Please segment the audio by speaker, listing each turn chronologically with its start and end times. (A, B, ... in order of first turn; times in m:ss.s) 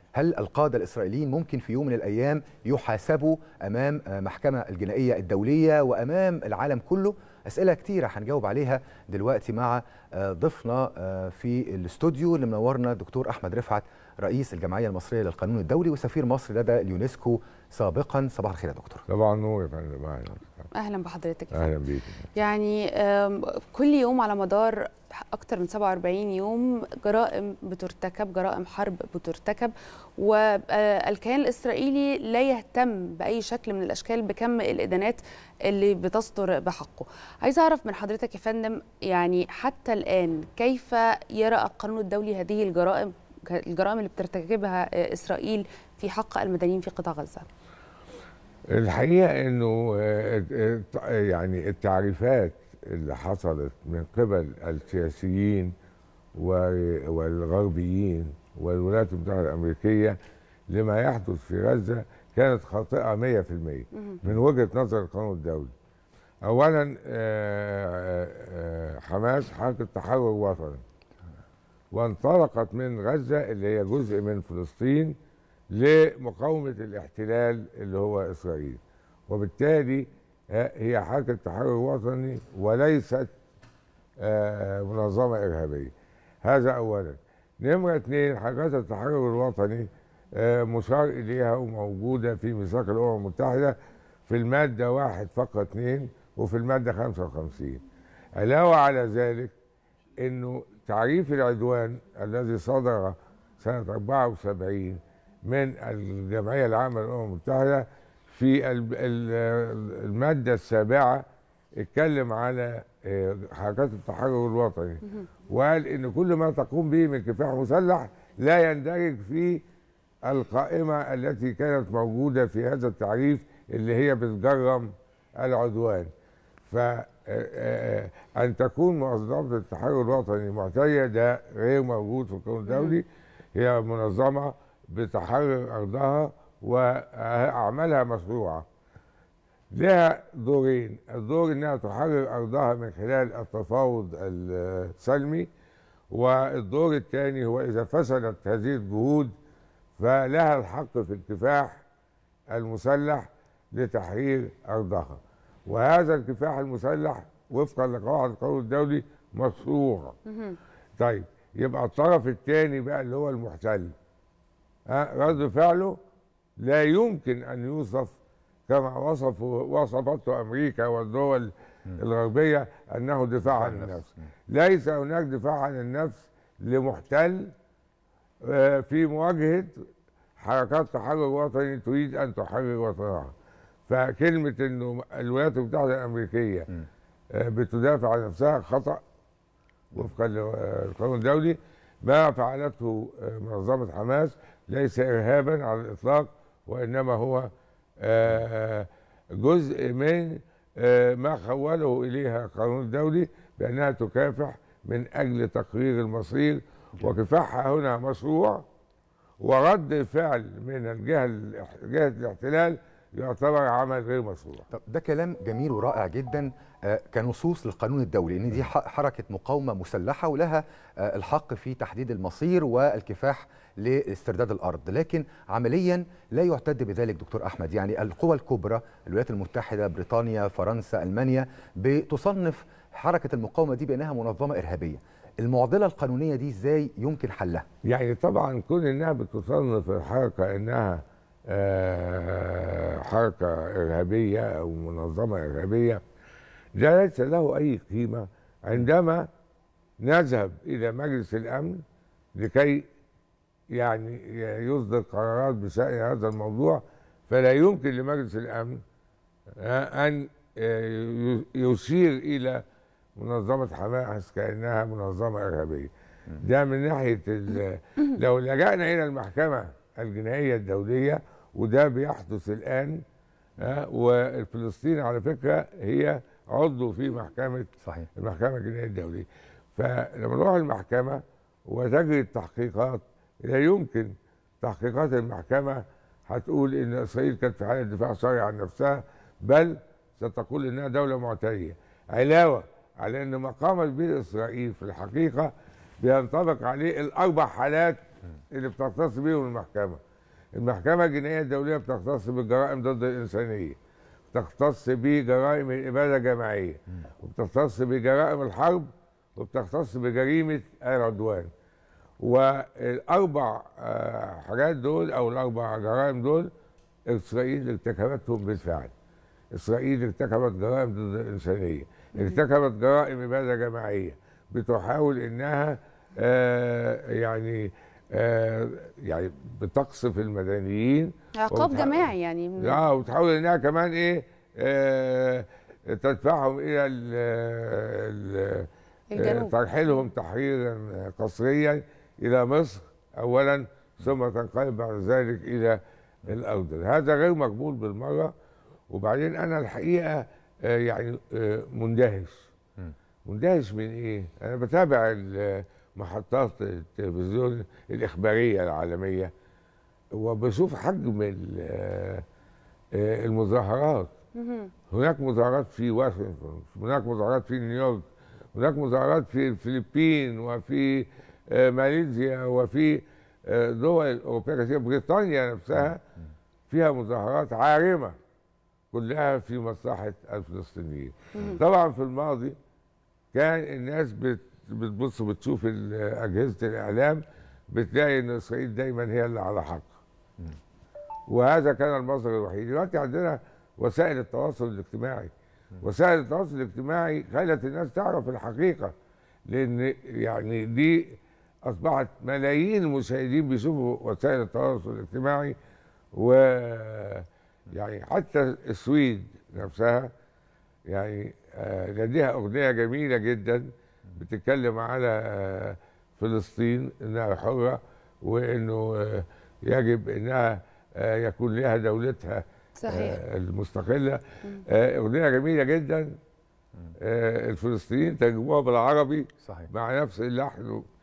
0:00.2-0:19.0 A
0:19.1-0:20.7 B
0:20.7-0:21.7 C
0:21.5-0:22.3 B
0:22.4-0:47.5 C
0:48.7-0:55.7 B
0:56.3-1:00.2 B
1:00.7-1:05.7 B
1:06.4-1:10.8 B
1:11.9-1:15.1 B
1:15.7-1:23.3 B
1:24.2-1:33.8 B
1:34.3-1:37.8 B
1:38.3-1:39.5 B
1:40.2-1:51.2 B
1:51.8-1:59.6 B
2:00.2-2:06.1 B
2:06.7-2:18.6 B
2:12.7-2:13.0 C
2:19.7-2:25.5 B
2:26.1-2:29.3 B
2:30.0-2:31.8 B
2:32.5-2:40.1 B
2:40.3-2:40.6 C
2:41.0-2:43.9 B
2:44.9-2:46.0 B
2:46.6-2:48.2 B
2:48.7-2:57.5 B
2:53.5-2:54.0 A
2:58.4-2:59.8 B
3:00.4-3:03.3 B
3:03.9-3:06.7 B
3:07.3-3:09.0 B
3:09.9-3:17.5 B
3:18.0-3:28.6 B
3:29.4-3:34.7 B
3:34.7-3:57.6 A
3:57.8-4:06.0 B
4:06.7-4:09.3 B
4:10.0-4:11.8 B
4:12.4-4:12.8 B
4:13.7-4:18.8 B
4:19.6-4:22.6 B
4:23.2-4:33.0 B
4:33.6-4:58.0 B
4:37.8-4:38.1 A
4:58.5-5:00.0 B
5:00.5-5:03.8 B
5:04.3-5:11.5 B
5:12.2-5:16.5 B
5:17.1-5:18.9 B
5:19.5-5:48.3 B
5:22.1-5:22.4 C
5:31.3-5:32.8 C
5:39.1-5:39.5 C
5:48.9-5:52.5 B
5:53.2-5:59.3 B
6:00.2-6:02.2 B
6:02.9-6:04.1 B
6:04.4-6:04.7 C
6:04.9-6:16.0 B
6:16.7-6:18.1 B
6:18.9-6:22.5 B
6:21.3-6:21.6 C
6:23.3-6:29.9 B
6:31.3-6:38.9 B
6:39.5-6:45.6 B
6:46.1-6:50.1 B
6:50.9-7:06.1 B
7:02.8-7:03.2 C
7:07.0-7:10.8 B
7:09.4-7:09.7 A